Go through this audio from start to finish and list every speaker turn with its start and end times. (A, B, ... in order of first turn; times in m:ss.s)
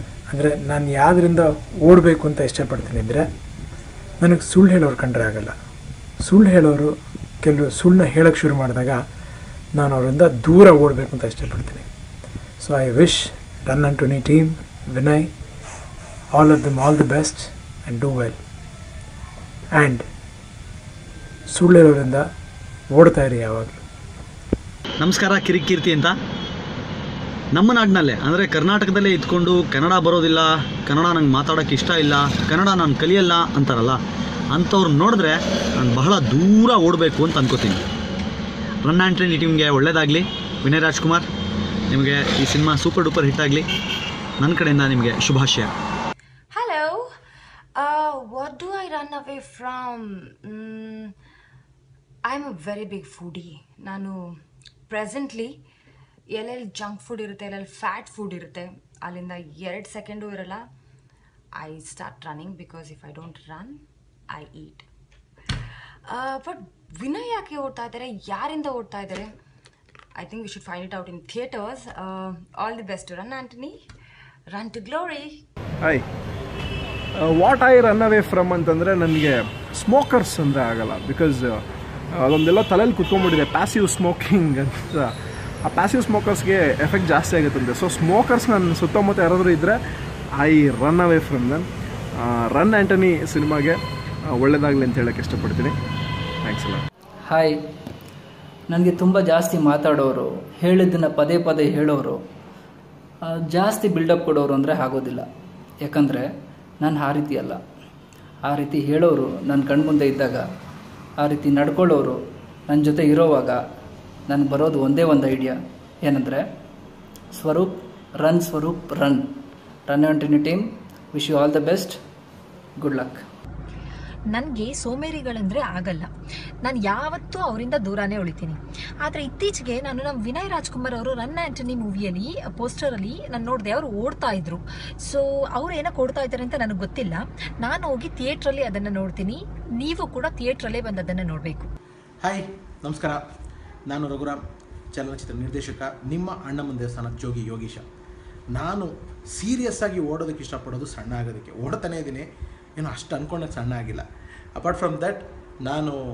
0:00.3-0:03.3 A
0:04.2-0:05.5 A
0:06.2-0:09.0 A
0:09.8-0:11.9 A
0:12.6-0:15.3 A
0:16.3-0:18.4 A
0:19.7-0:20.0 A
0:21.5-0:22.2 A
0:22.9-0:23.8 A
0:25.0-0:26.2 B
0:27.6-0:34.0 B
0:34.5-0:37.8 B
0:38.9-0:41.3 B
0:41.9-0:43.6 B
0:44.4-0:45.7 B
0:46.5-0:47.1 C
0:47.8-0:51.1 C
0:52.2-0:54.3 C
0:54.9-0:55.6 C
0:56.3-1:00.6 C
1:01.5-1:04.9 C
1:06.1-1:09.3 C
1:10.2-1:13.8 C
1:14.5-1:15.5 C
1:17.2-1:21.6 D
1:22.2-1:25.1 D
1:25.6-1:29.8 D
1:30.4-1:31.6 D
1:32.2-1:35.8 D
1:36.4-1:36.8 D
1:37.3-1:37.6 E
1:38.7-1:42.2 E
1:43.2-1:45.3 E
1:45.8-1:46.3 E
1:46.8-1:47.6 E
1:48.4-1:50.4 E
1:51.2-1:53.6 E
1:54.3-1:56.4 E
1:57.3-1:59.3 E
1:59.9-2:02.0 E
2:02.8-2:03.2 E
2:04.3-2:06.1 F
2:06.6-2:21.7 F
2:22.2-2:23.2 G
2:23.9-2:24.4 G
2:24.9-2:27.9 G
2:28.5-2:36.0 G